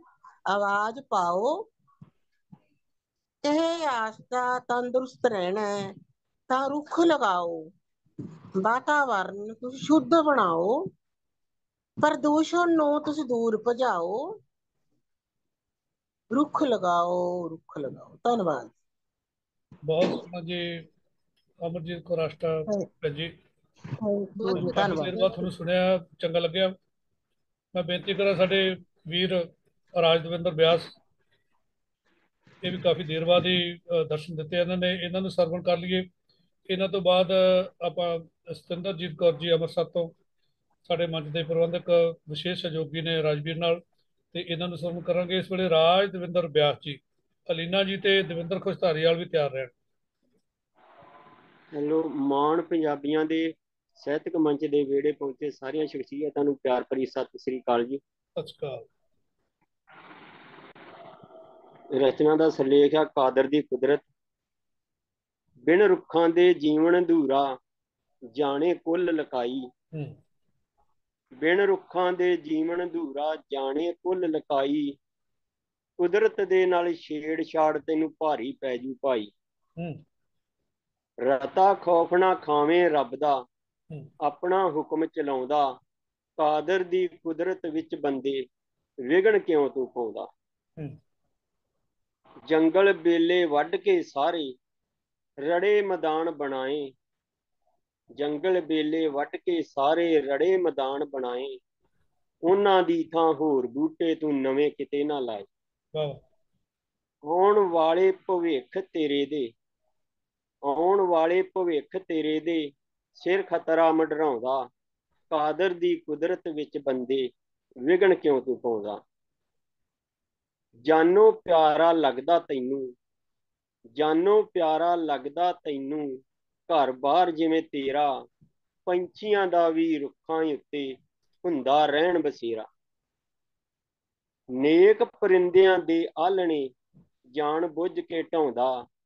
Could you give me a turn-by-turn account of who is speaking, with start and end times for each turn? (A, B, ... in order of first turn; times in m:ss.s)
0:00.5-0:01.6 A
0:03.4-0:06.0 A
0:06.5-0:07.7 A
0:08.6-0:10.8 A
0:12.0-0:14.2 A
0:16.3-0:18.7 A
0:19.9-0:20.9 B
0:21.6-0:23.3 B
0:24.0-0:25.5 A
0:24.4-0:26.7 B
0:27.8-0:31.0 B
0:32.6-0:36.1 B
0:36.7-0:40.1 B
0:40.9-0:43.8 B
0:44.3-0:49.7 B
0:51.8-0:58.0 C
0:58.4-0:58.8 B
1:02.0-1:04.0 C
1:05.7-1:07.5 C
1:08.4-1:09.7 C
1:11.4-1:14.9 C
1:16.0-1:19.3 C
1:21.2-1:23.4 C
1:24.3-1:25.7 C
1:26.4-1:28.4 C
1:29.1-1:30.3 C
1:32.5-1:34.5 C
1:35.5-1:36.9 C
1:38.2-1:41.6 C
1:42.5-1:45.5 C
1:46.0-1:46.2 B
1:47.3-1:49.5 C
1:50.7-1:54.6 C
1:55.3-1:57.2 C
1:57.8-1:59.0 C
2:00.9-2:02.9 C
2:04.0-2:06.1 C
2:06.7-2:08.1 C
2:08.9-2:10.9 C
2:11.4-2:12.7 C
2:14.6-2:16.7 C
2:17.4-2:18.7 C